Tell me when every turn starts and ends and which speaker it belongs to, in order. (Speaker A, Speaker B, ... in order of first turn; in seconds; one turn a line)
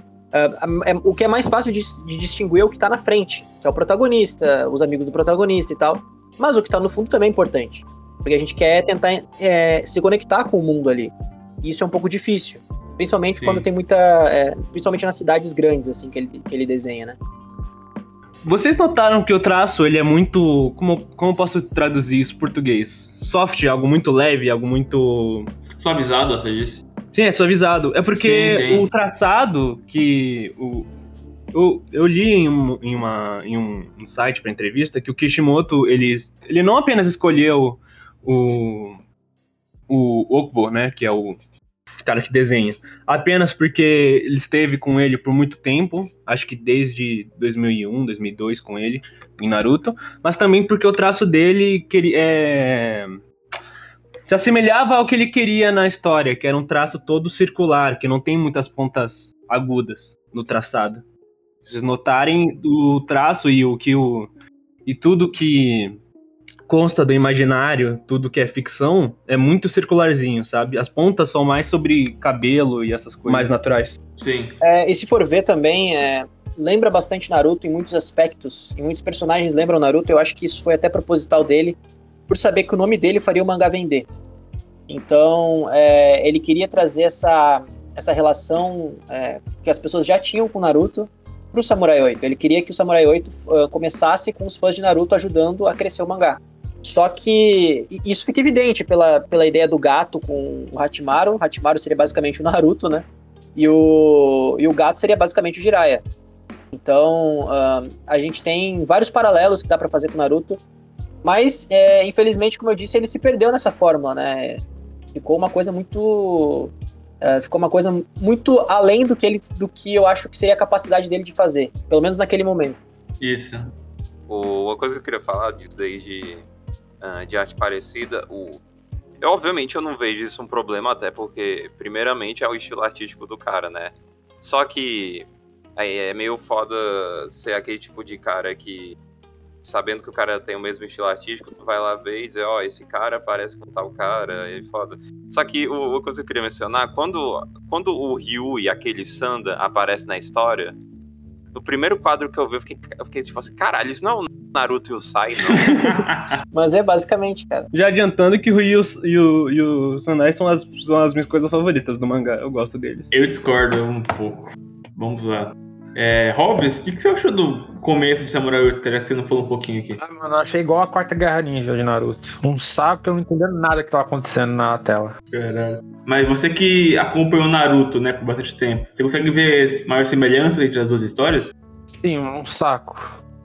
Speaker A: 0.3-17.2
Speaker B: 13.3-13.7
Speaker C: 18.4-25.5
Speaker B: 25.8-26.8
Speaker C: 27.1-30.9
Speaker B: 28.1-28.9
Speaker C: 31.5-39.0
Speaker C: 39.9-41.4
Speaker C: 42.0-53.2
Speaker C: 54.2-61.0
Speaker C: 61.6-64.3
Speaker C: 64.8-66.0
Speaker C: 66.7-74.0
Speaker B: 74.2-74.5
Speaker A: 74.6-81.8
Speaker A: 82.3-84.1
Speaker A: 84.9-106.0
Speaker A: 106.7-110.6
Speaker A: 111.2-114.6
Speaker A: 115.1-122.8
Speaker B: 123.2-123.7
Speaker D: 124.3-126.4
Speaker D: 127.0-128.6
Speaker D: 129.2-139.0
Speaker D: 139.6-150.8
Speaker D: 151.5-155.8
Speaker B: 155.6-156.4
Speaker A: 156.5-157.7
Speaker C: 157.7-163.1
Speaker B: 163.1-170.0
Speaker E: 170.0-175.1
Speaker B: 175.3-181.5
Speaker E: 181.9-183.2